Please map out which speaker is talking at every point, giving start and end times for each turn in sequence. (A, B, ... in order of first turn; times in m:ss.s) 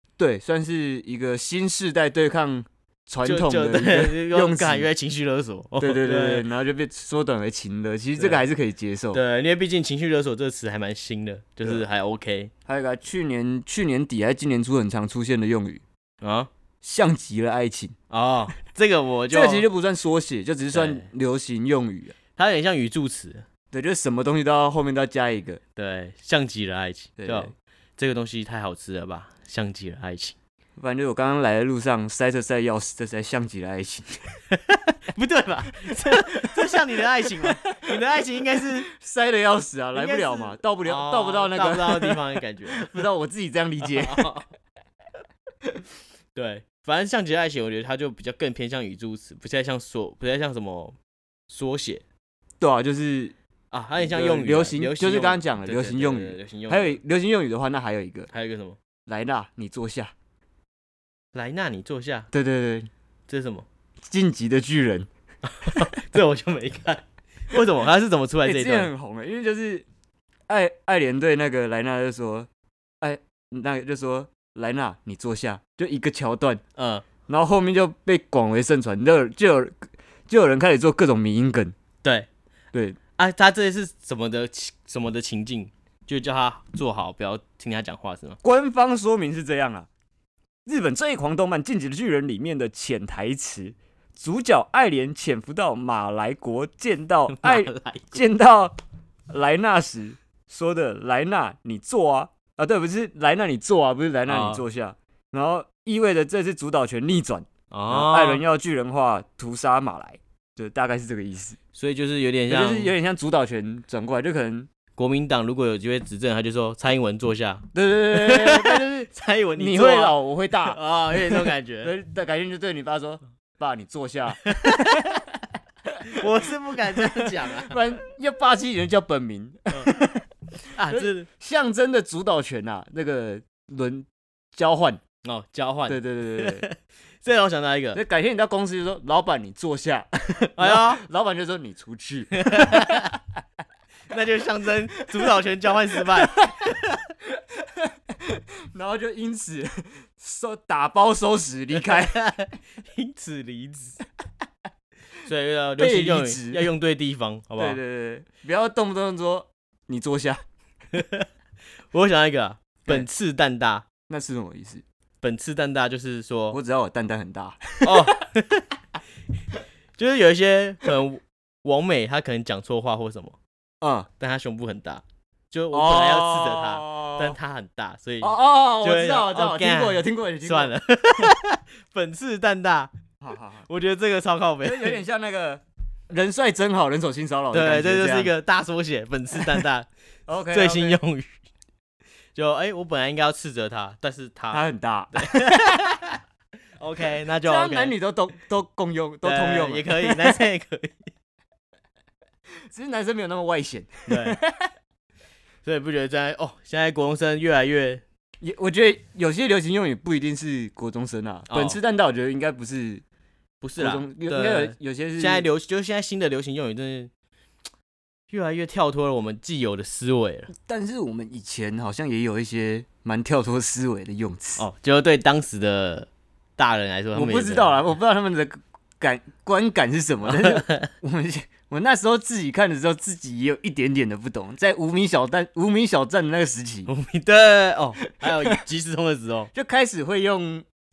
0:00.2-0:04.9 A
0:03.2-0:06.5 B
0:05.8-0:09.2 A
0:08.2-0:08.4 B
0:09.1-0:12.5 B
0:12.7-0:15.8 A
0:16.2-0:16.5 B
0:16.8-0:18.0 A
0:18.1-0:19.6 B
0:19.3-0:22.2 A
0:20.7-0:21.1 B
0:22.4-0:23.5 B
0:23.7-0:25.6 A
0:25.8-0:30.4 B
0:27.2-0:27.5 A
0:30.8-0:34.2 A
0:34.5-0:38.9 B
0:35.9-0:38.0 A
0:38.6-0:42.2 A
0:40.0-0:42.9 B
0:42.7-0:44.3 A
0:43.8-0:44.5 B
0:46.4-0:51.0 B
0:51.5-0:52.0 B
0:52.6-0:53.4 A
0:53.7-0:57.0 B
0:54.0-0:58.3 A
0:58.3-0:58.8 B
0:59.1-1:00.1 A
1:01.3-1:02.3 B
1:02.3-1:02.9 A
1:03.3-1:03.7 B
1:04.0-1:05.1 A
1:05.5-1:08.9 B
1:08.4-1:09.9 A
1:10.5-1:12.5 A
1:13.0-1:16.6 A
1:16.8-1:17.1 B
1:17.3-1:21.8 A
1:22.0-1:22.3 B
1:22.7-1:23.0 A
1:23.2-1:28.4 B
1:28.4-1:29.9 A
1:30.7-1:38.8 A
1:37.3-1:38.2 B
1:39.3-1:51.6 A
1:44.3-1:44.6 B
1:47.7-1:48.4 B
1:51.8-1:52.9 B
1:52.5-1:54.7 A
1:55.0-2:01.9 B
1:57.7-2:05.2 A
2:04.4-2:05.2 B
2:05.9-2:06.2 A
2:06.0-2:07.8 B
2:06.9-2:10.3 A
2:09.7-2:10.0 B
2:10.7-2:11.3 B
2:10.8-2:15.0 A
2:15.2-2:18.0 B
2:15.9-2:16.7 A
2:18.0-2:23.2 A
2:20.6-2:21.0 B
2:22.3-2:23.2 B
2:24.1-2:27.0 B
2:25.9-2:32.2 A
2:31.8-2:34.0 B
2:35.2-2:37.8 B
2:35.8-2:36.7 A
2:37.6-2:40.4 A
2:40.9-2:41.3 B
2:41.9-2:43.9 B
2:44.1-2:44.8 A
2:45.2-2:46.6 B
2:46.5-2:48.1 A
2:47.8-2:48.6 B
2:50.0-2:53.4 B
2:53.8-2:54.1 A
2:54.2-3:02.9 B
2:55.7-2:57.4 A
2:58.2-3:00.7 A
3:03.2-3:03.6 A
3:03.7-3:05.0 B
3:04.6-3:08.3 A
3:07.5-3:09.9 B
3:10.3-3:11.0 A
3:10.5-3:11.3 B
3:12.4-3:16.1 B
3:14.5-3:16.0 A
3:16.8-3:18.0 B
3:17.4-3:20.4 A
3:19.2-3:21.1 B
3:22.7-3:24.7 A
3:24.1-3:24.4 B
3:25.6-3:28.0 B
3:28.4-3:33.0 A
3:31.5-3:31.8 B
3:33.6-3:37.1 B
3:33.8-3:35.5 A
3:38.3-3:40.5 B
3:40.5-3:44.6 A
3:44.6-3:47.8 B
3:47.1-3:56.9 A
3:50.3-3:50.9 B
3:56.9-3:59.5 B
3:58.2-3:58.6 A
3:59.5-4:00.7 A